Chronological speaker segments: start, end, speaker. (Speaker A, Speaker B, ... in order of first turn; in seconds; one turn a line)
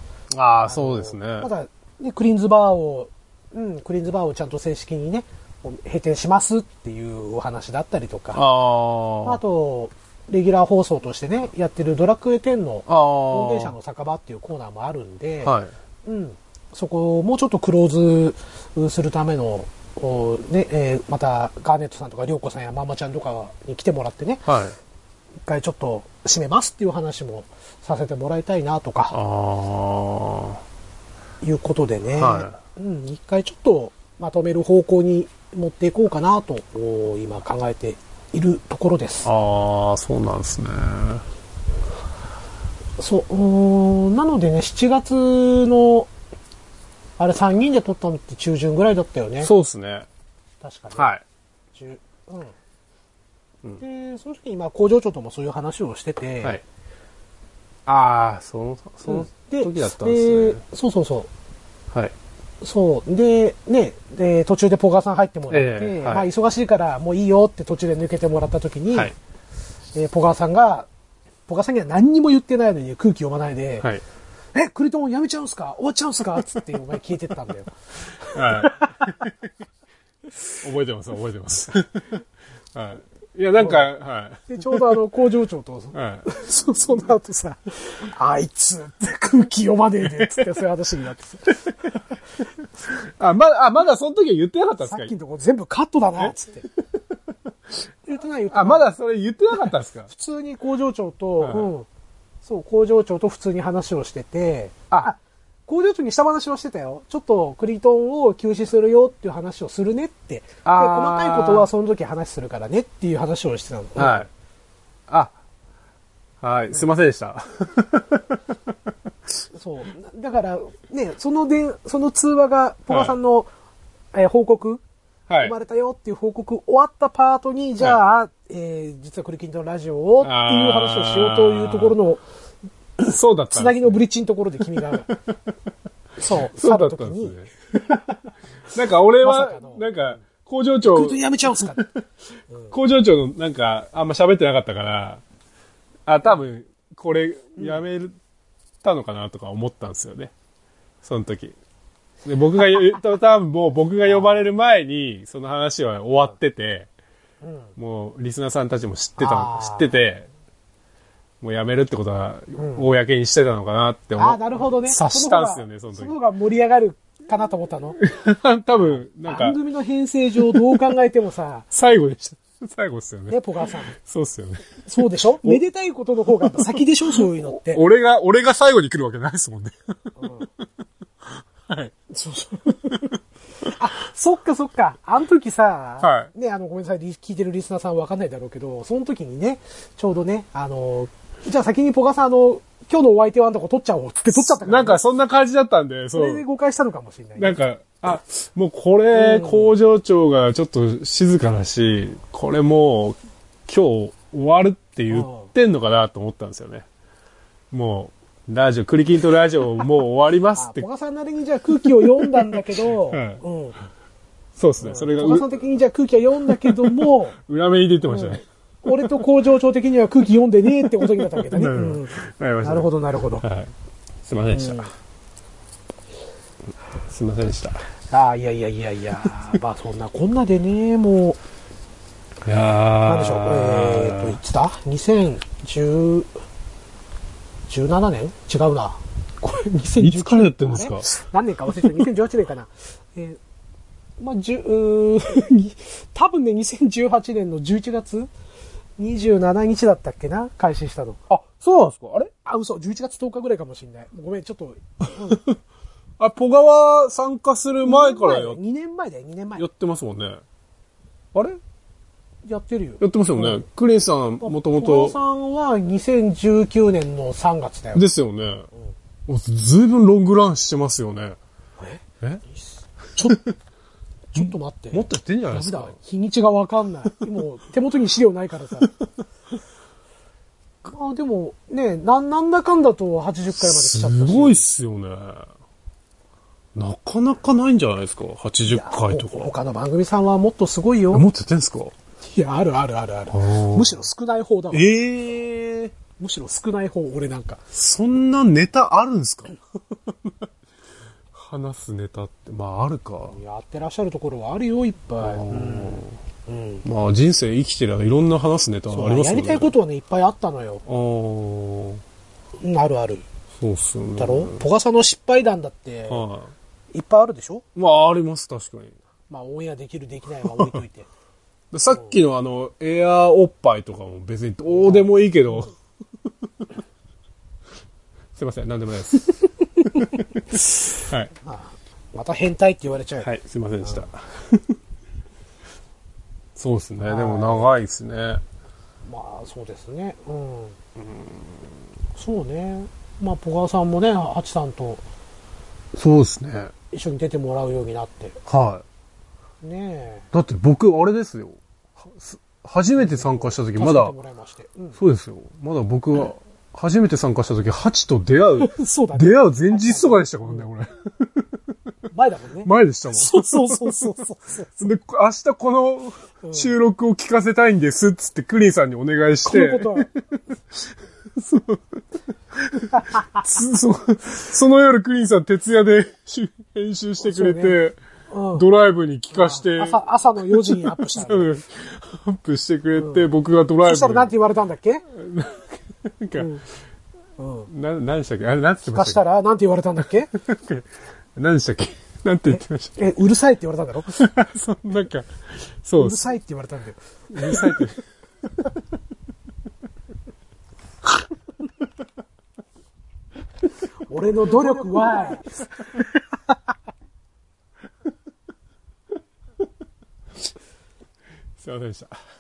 Speaker A: 0.3-1.5
Speaker B: 0.7-8.4
Speaker A: 8.3-9.4
Speaker B: 9.2-24.5
Speaker A: 12.9-13.8
Speaker A: 15.4-15.7
Speaker A: 24.5-24.8
Speaker B: 25.4-29.2
Speaker A: 29.1-30.6
Speaker B: 31.4-39.3
Speaker A: 32.2-32.6
Speaker A: 39.2-41.2
Speaker B: 43.0-46.1
Speaker B: 47.2-49.5
Speaker A: 49.4-50.1
Speaker B: 50.6-51.1
Speaker A: 51.0-51.2
Speaker B: 51.7-52.5
Speaker B: 53.8-56.6
Speaker A: 57.9-60.6
Speaker B: 59.1-61.3
Speaker B: 62.6-69.1
Speaker A: 65.5-66.3
Speaker B: 69.9-70.9
Speaker B: 71.5-73.9
Speaker B: 74.5-79.1
Speaker A: 78.3-79.3
Speaker A: 80.6-82.2
Speaker A: 82.7-84.8
Speaker B: 83.6-83.9
Speaker B: 84.5-91.9
Speaker A: 85.9-86.3
Speaker A: 90.1-90.5
Speaker A: 92.9-95.1
Speaker B: 94.8-96.7
Speaker B: 98.1-98.9
Speaker A: 98.5-100.1
Speaker B: 100.1-101.9
Speaker A: 101.4-101.7
Speaker B: 102.4-114.3
Speaker A: 110.6-111.7
Speaker A: 114.0-114.3
Speaker A: 115.1-115.4
Speaker A: 116.4-118.9
Speaker B: 119.5-123.5
Speaker A: 122.9-123.2
Speaker B: 124.1-124.8
Speaker A: 125.3-125.5
Speaker B: 125.4-132.2
Speaker A: 130.2-132.0
Speaker A: 133.0-134.0
Speaker B: 133.5-135.1
Speaker A: 134.9-135.4
Speaker B: 136.2-137.4
Speaker A: 136.5-138.0
Speaker A: 138.7-142.0
Speaker B: 139.2-139.9
Speaker B: 140.9-141.9
Speaker B: 142.5-142.8
Speaker A: 142.7-145.2
Speaker A: 146.1-148.1
Speaker A: 148.8-150.3
Speaker A: 151.0-151.6
Speaker A: 152.2-156.9
Speaker B: 154.1-154.4
Speaker B: 157.4-157.7
Speaker A: 157.8-160.3
Speaker B: 159.2-160.0
Speaker A: 161.4-166.1
Speaker B: 162.6-162.9
Speaker B: 164.2-168.0
Speaker A: 168.0-169.6
Speaker B: 168.8-171.7
Speaker A: 170.5-170.8
Speaker A: 171.7-173.4
Speaker B: 173.3-173.9
Speaker A: 173.9-175.6
Speaker B: 174.9-177.8
Speaker A: 176.4-179.8
Speaker B: 180.2-180.5
Speaker A: 181.4-181.9
Speaker B: 182.1-183.1
Speaker B: 183.6-195.0
Speaker A: 186.0-186.3
Speaker A: 194.3-196.4
Speaker B: 196.1-197.6
Speaker A: 197.4-206.9
Speaker B: 199.1-199.7
Speaker B: 205.1-205.5
Speaker A: 207.7-210.9
Speaker B: 210.6-213.8
Speaker A: 211.8-213.4
Speaker A: 214.6-215.6
Speaker B: 214.8-217.4
Speaker A: 216.4-218.4
Speaker B: 218.1-223.4
Speaker A: 220.8-222.9
Speaker A: 223.4-223.7
Speaker A: 224.2-224.9
Speaker B: 224.5-224.9
Speaker A: 227.1-227.8
Speaker B: 228.1-231.4
Speaker A: 232.4-234.4
Speaker B: 233.1-236.3
Speaker B: 237.7-243.4
Speaker A: 240.0-241.1
Speaker B: 244.2-248.3
Speaker B: 249.0-251.2
Speaker A: 251.3-252.3
Speaker B: 252.4-255.4
Speaker A: 256.2-258.6
Speaker B: 257.9-259.6
Speaker A: 259.6-260.4
Speaker A: 261.3-261.6
Speaker B: 262.5-263.6
Speaker A: 263.0-265.2
Speaker B: 264.4-268.1
Speaker A: 267.9-268.7
Speaker A: 269.3-271.4
Speaker B: 271.8-272.6
Speaker B: 273.1-273.5
Speaker B: 274.3-278.9
Speaker A: 274.4-275.9
Speaker B: 280.8-284.6
Speaker A: 283.6-285.5
Speaker A: 286.8-289.5
Speaker B: 288.7-291.3
Speaker A: 291.1-291.9
Speaker B: 292.3-295.0
Speaker A: 293.3-294.0
Speaker A: 294.7-295.9
Speaker B: 296.2-297.6
Speaker A: 297.7-299.6
Speaker A: 301.3-303.4
Speaker B: 303.3-306.8
Speaker A: 305.2-306.2
Speaker A: 306.8-309.7
Speaker B: 308.9-310.8
Speaker A: 310.9-312.0
Speaker B: 312.6-313.2
Speaker A: 313.6-314.6
Speaker B: 314.2-316.3
Speaker A: 316.1-316.5
Speaker B: 316.9-317.7
Speaker A: 317.8-319.0
Speaker B: 319.3-321.1
Speaker A: 320.4-320.8
Speaker A: 321.7-325.7
Speaker B: 324.7-325.7
Speaker A: 328.4-331.3
Speaker B: 331.4-333.3
Speaker A: 333.2-334.8
Speaker B: 333.8-334.1
Speaker A: 336.6-338.4
Speaker B: 337.0-337.7
Speaker B: 339.1-340.8
Speaker A: 341.0-341.7
Speaker B: 342.2-345.0
Speaker A: 345.9-346.7
Speaker B: 346.9-348.4
Speaker A: 348.5-348.8
Speaker B: 349.6-350.3
Speaker A: 350.3-354.1
Speaker B: 353.0-355.0
Speaker A: 355.0-361.5
Speaker B: 358.6-360.7
Speaker B: 362.1-364.7
Speaker A: 362.6-364.1
Speaker A: 364.8-370.1
Speaker B: 366.4-366.7
Speaker B: 369.4-370.1
Speaker A: 371.3-378.0
Speaker B: 372.9-373.4
Speaker B: 377.2-377.8
Speaker B: 378.3-378.6
Speaker A: 378.5-384.3
Speaker B: 379.3-381.6
Speaker B: 383.0-383.3
Speaker B: 383.8-385.1
Speaker A: 385.1-386.5
Speaker B: 386.4-386.6
Speaker B: 387.4-387.7
Speaker A: 387.7-389.2
Speaker B: 388.9-390.3
Speaker A: 390.3-393.0
Speaker B: 392.5-394.1
Speaker A: 394.1-396.2
Speaker B: 396.0-397.9
Speaker A: 397.3-398.0
Speaker B: 404.1-406.5
Speaker A: 404.6-405.3
Speaker A: 411.6-412.2